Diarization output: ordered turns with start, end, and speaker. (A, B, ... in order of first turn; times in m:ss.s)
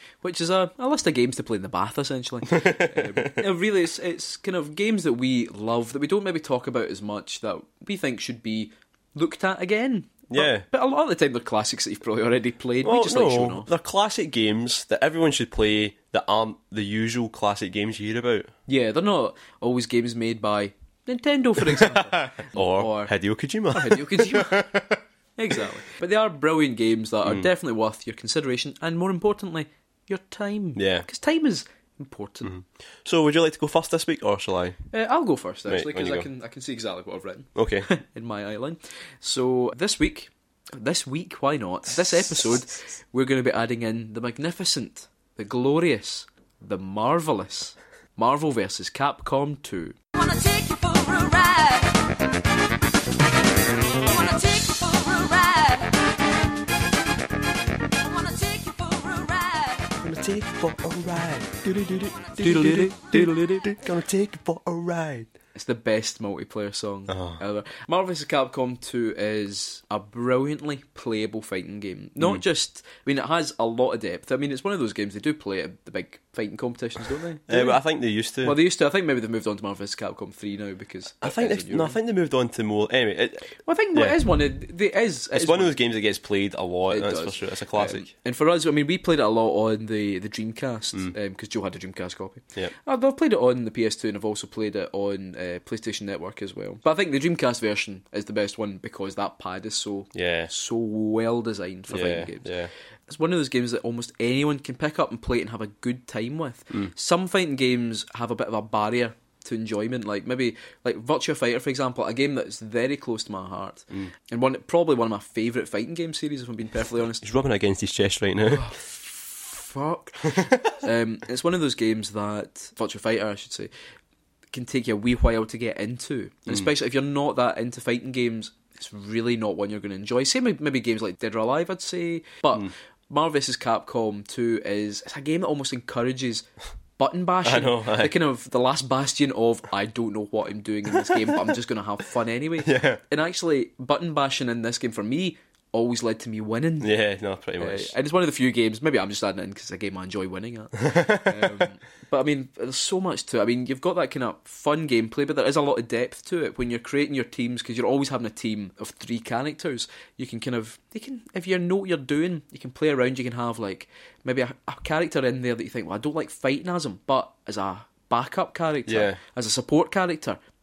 0:00.2-0:13.7 A
0:02.5-0:03.3 B
0:10.3-0:10.6 B
0:12.8-0:18.5 B
0:18.7-0:23.1 A
0:21.7-0:25.0 B
0:23.7-0:24.6 A
0:25.4-0:32.5 A
0:30.8-0:31.0 B
0:32.4-0:34.8 B
0:34.9-0:50.0 A
0:35.7-0:36.3 B
0:37.6-0:37.9 B
0:50.1-0:52.0 C
0:54.0-0:56.0 C
0:58.0-1:00.0 C
1:00.0-1:05.3 B
1:02.4-1:03.8 A
1:05.5-1:17.8 A
1:07.1-1:07.4 B
1:17.5-1:18.6 B
1:18.4-1:22.0 A
1:21.2-1:24.2 B
1:23.6-1:25.7 A
1:25.3-1:28.1 B
1:26.9-1:42.5 A
1:40.1-1:40.5 B
1:41.9-1:42.7 B
1:43.1-1:57.2 A
1:57.2-1:58.7 B
1:58.5-2:03.7 A
2:04.5-2:16.5 A
2:17.0-2:26.9 A
2:17.4-2:18.1 B
2:22.6-2:23.0 B
2:26.8-2:27.9 B
2:27.6-2:50.4 A
2:30.8-2:31.6 B
2:48.9-2:49.2 B